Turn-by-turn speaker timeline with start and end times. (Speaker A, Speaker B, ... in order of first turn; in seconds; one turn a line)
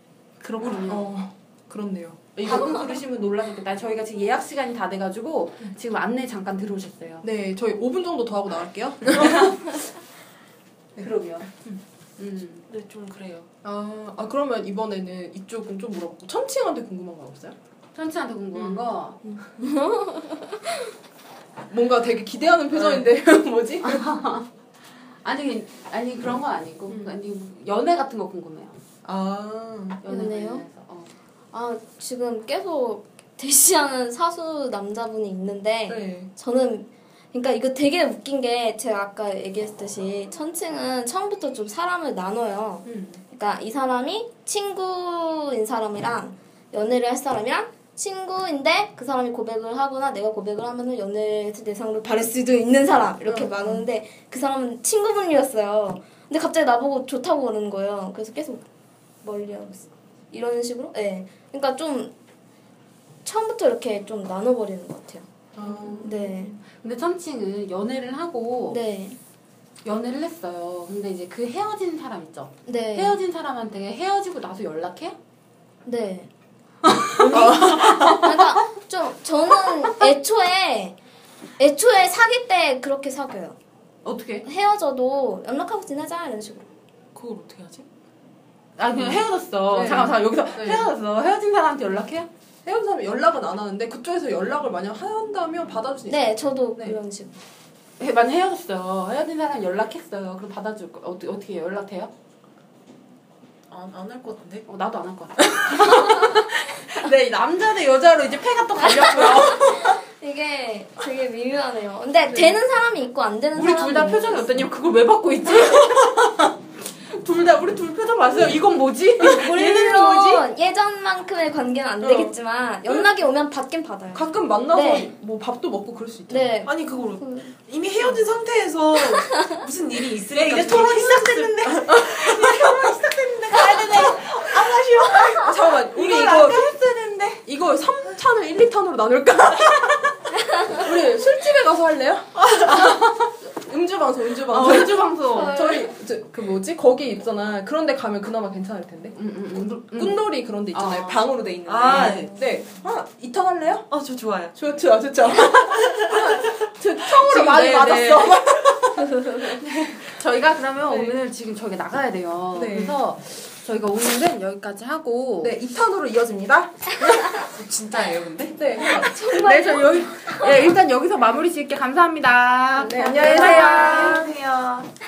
Speaker A: 0.4-2.6
Speaker B: 0.5-1.1
Speaker B: 2.4-7.2
Speaker A: 7.2-9.6
Speaker B: 9.2-9.5
Speaker B: 11.0-11.5
Speaker B: 12.2-12.6
Speaker C: 12.7-13.5
Speaker A: 13.6-17.6
Speaker B: 17.9-19.2
Speaker A: 18.5-18.9
Speaker D: 19.5-20.8
Speaker A: 21.7-24.0
Speaker B: 23.8-24.5
Speaker B: 25.2-28.8
Speaker A: 26.9-27.2
Speaker A: 29.0-30.0
Speaker B: 30.0-31.1
Speaker D: 30.1-30.6
Speaker D: 31.5-58.6
Speaker A: 35.9-36.3
Speaker A: 42.8-43.2
Speaker A: 53.2-53.9
Speaker D: 59.2-62.1
Speaker D: 63.2-65.3
Speaker A: 65.5-66.3
Speaker B: 65.6-66.1
Speaker D: 66.0-66.5
Speaker B: 66.7-68.8
Speaker D: 68.7-69.2
Speaker B: 69.8-75.1
Speaker D: 72.7-73.2
Speaker D: 75.8-76.3
Speaker A: 76.9-78.2
Speaker B: 77.2-78.4
Speaker D: 77.3-81.0
Speaker C: 77.3-78.0
Speaker D: 81.6-83.6
Speaker B: 84.0-84.5
Speaker D: 84.4-86.7
Speaker C: 87.1-87.8
Speaker B: 88.8-92.3
Speaker A: 89.7-90.9
Speaker A: 92.6-97.0
Speaker D: 96.1-97.4
Speaker B: 98.0-102.1
Speaker C: 103.7-104.7
Speaker B: 104.7-110.0
Speaker D: 108.8-114.4
Speaker B: 113.5-116.5
Speaker B: 117.1-120.4
Speaker D: 119.3-125.1
Speaker A: 122.0-122.3
Speaker A: 124.1-126.5
Speaker D: 126.3-127.5
Speaker C: 126.7-135.3
Speaker B: 130.3-137.4
Speaker A: 131.9-132.2
Speaker A: 135.3-136.7
Speaker A: 137.4-153.9
Speaker B: 144.4-145.7
Speaker D: 145.3-145.9
Speaker B: 149.1-151.3
Speaker C: 151.7-152.5
Speaker B: 151.9-152.2
Speaker D: 152.4-152.8
Speaker C: 153.9-154.6
Speaker A: 154.5-160.0
Speaker C: 155.8-156.6
Speaker B: 157.0-158.5
Speaker B: 160.0-165.5
Speaker A: 160.9-161.2
Speaker A: 162.5-163.0
Speaker A: 165.4-167.5
Speaker C: 167.4-168.6
Speaker A: 168.6-169.1
Speaker D: 168.8-170.7
Speaker B: 169.2-174.9
Speaker A: 172.8-174.2
Speaker D: 172.8-174.3
Speaker C: 173.9-174.8